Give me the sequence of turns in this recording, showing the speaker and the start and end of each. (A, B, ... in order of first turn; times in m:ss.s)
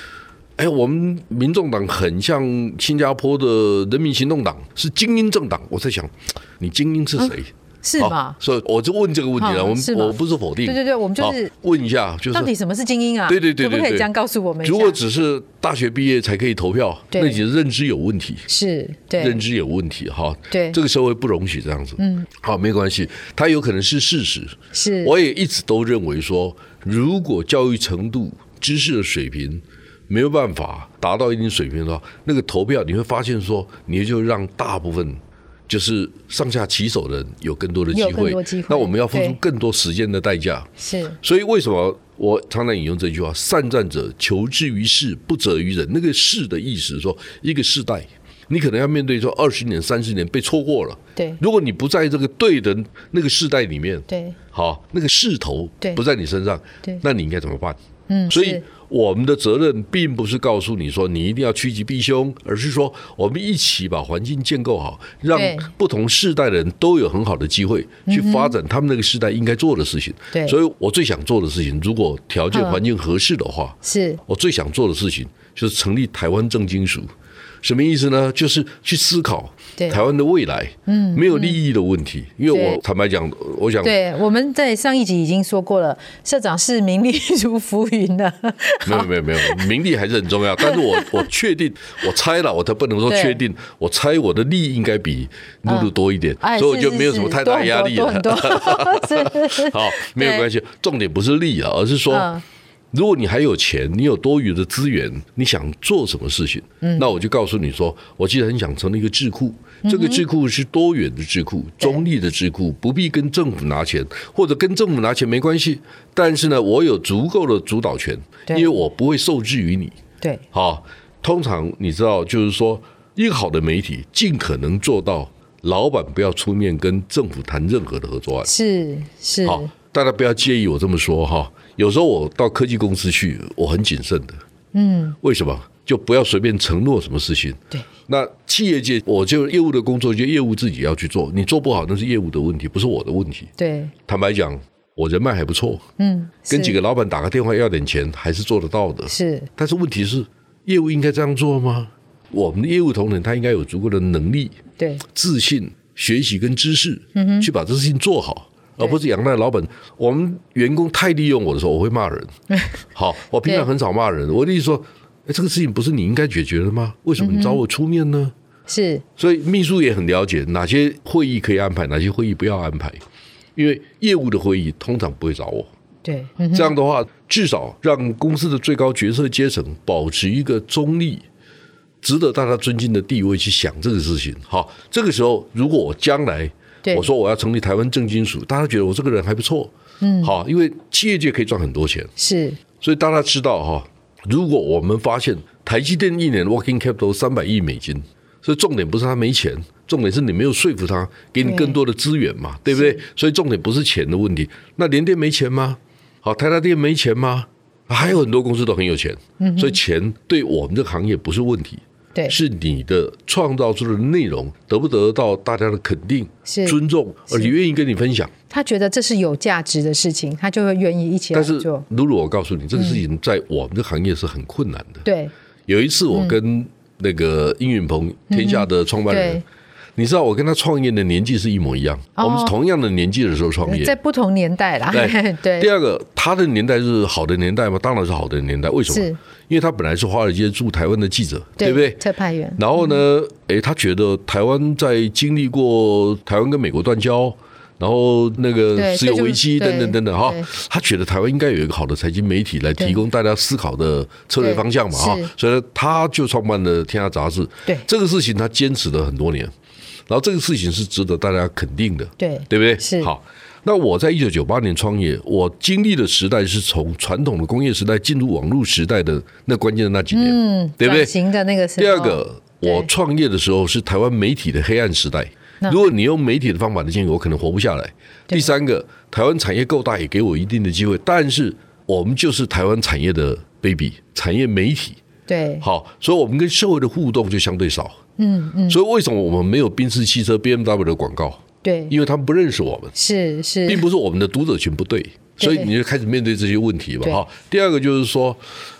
0:00.6-0:12.5 A
0:07.8-0:08.4 B
0:09.4-0:11.5 B
0:12.3-0:15.0 B
0:13.3-0:14.1 A
0:14.6-0:18.5 A
0:17.1-0:17.4 B
0:18.5-0:19.4 B
0:19.2-0:57.8 A
0:20.5-0:20.8 B
0:22.0-0:22.3 B
0:24.7-0:25.1 B
0:37.9-0:39.4 B
0:40.8-0:41.2 B
0:54.1-0:54.4 B
0:58.1-0:58.6 B
0:58.3-1:17.1 A
1:05.3-1:05.7 B
1:08.1-1:08.5 B
1:10.3-1:10.6 B
1:12.5-1:12.8 B
1:13.8-1:14.2 B
1:17.6-1:23.9 A
1:20.9-1:21.6 B
1:22.5-1:22.8 B
1:23.8-1:29.7 B
1:28.8-1:42.3 A
1:30.6-1:31.3 B
1:33.1-1:33.4 B
1:35.7-1:40.5 B
1:42.1-1:42.4 B
1:42.9-2:00.0 A
1:46.8-1:47.1 B
1:49.8-1:50.2 B
1:58.5-1:58.8 B
2:00.5-2:08.5 A
2:08.4-2:09.7 B
2:09.4-2:14.4 A
2:14.7-2:15.2 B
2:15.2-2:23.5 A
2:23.6-2:23.9 B
2:24.0-2:25.8 A
2:26.0-2:26.8 B
2:26.5-2:42.3 A
2:29.1-2:29.5 B
2:34.8-2:35.0 B
2:37.1-2:37.5 B
2:42.5-2:42.8 B
2:42.9-2:48.3 A
2:47.2-2:47.6 B
2:48.7-2:49.0 B
2:49.2-2:53.0 A
2:53.6-2:55.7 A
2:56.0-2:56.7 B
2:56.5-3:01.2 A
3:02.0-3:12.1 A
3:10.0-3:10.3 B
3:12.2-3:12.6 B
3:12.8-3:38.3 A
3:21.4-3:21.8 B
3:22.7-3:23.0 B
3:29.4-3:29.8 B
3:36.4-3:36.8 B
3:38.5-3:41.8 B
3:41.3-3:45.0 A
3:42.8-3:43.0 B
3:45.0-3:45.3 B
3:45.7-3:49.4 A
3:48.3-3:49.4 B
3:50.0-3:53.9 A
3:52.2-3:52.5 B
3:53.6-3:55.7 B
3:54.9-4:02.0 A
3:58.9-3:59.2 B
4:01.6-4:03.0 B
4:02.6-4:19.5 A
4:08.7-4:10.5 B
4:14.4-4:15.3 B
4:20.1-4:31.1 A
4:22.2-4:23.1 B
4:30.1-4:32.9 B
4:31.8-4:45.0 A
4:45.3-4:45.6 B
4:45.6-4:48.0 A
4:48.2-4:48.8 B
4:48.7-4:52.9 A
4:51.6-4:51.9 B
4:52.9-4:53.8 B
4:53.6-4:58.4 A
4:55.4-4:55.7 B